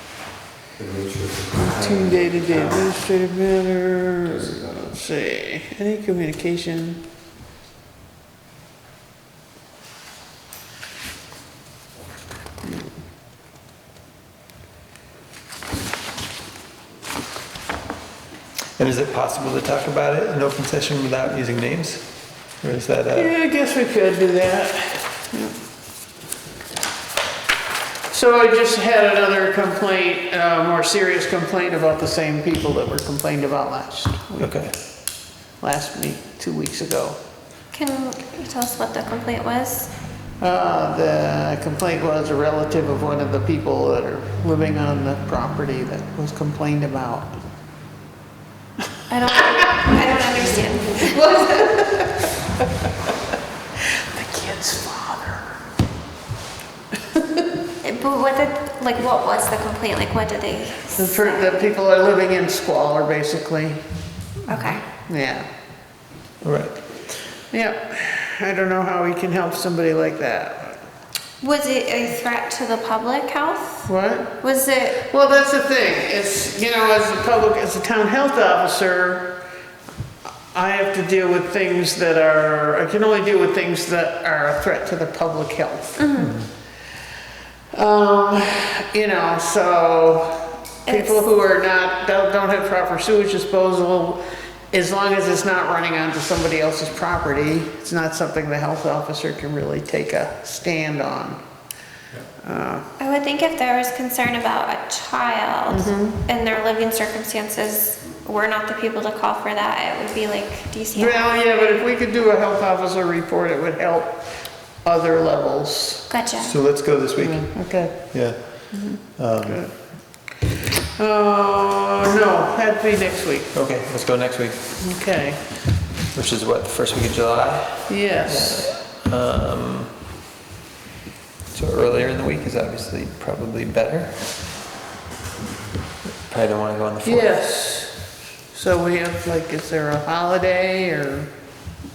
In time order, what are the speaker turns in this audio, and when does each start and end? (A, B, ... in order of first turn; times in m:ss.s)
0:00.8-0:03.0 A
0:01.7-0:07.0 B
0:04.3-0:04.8 A
0:18.8-0:22.1 C
0:22.6-0:23.3 C
0:23.1-0:25.5 B
0:28.1-0:34.6 B
0:34.4-0:34.7 C
0:35.6-0:37.2 B
0:37.7-0:39.9 D
0:40.4-0:47.3 B
0:49.1-0:51.7 D
0:50.6-0:52.3 B
0:53.8-0:55.5 B
0:57.8-1:01.6 D
1:01.0-1:03.8 B
1:04.5-1:04.8 D
1:04.5-1:04.8 C
1:05.0-1:05.5 B
1:06.4-1:06.8 C
1:07.5-1:10.8 B
1:11.4-1:15.0 D
1:13.9-1:14.3 B
1:15.0-1:19.3 B
1:20.5-1:26.1 B
1:26.0-1:26.3 D
1:26.2-1:26.5 C
1:27.7-1:34.2 B
1:30.9-1:31.3 D
1:34.7-1:41.4 B
1:42.4-1:42.9 B
1:43.0-1:51.4 D
1:45.7-1:46.2 B
1:51.0-1:54.2 B
1:54.8-1:56.1 B
1:56.1-1:56.5 D
1:56.4-1:59.7 C
1:57.2-1:58.0 B
1:58.7-1:59.7 B
2:00.4-2:03.5 B
2:03.5-2:04.6 C
2:04.8-2:05.4 B
2:06.1-2:09.9 C
2:07.9-2:08.7 B
2:11.5-2:14.2 C
2:16.3-2:17.4 C
2:17.0-2:21.3 B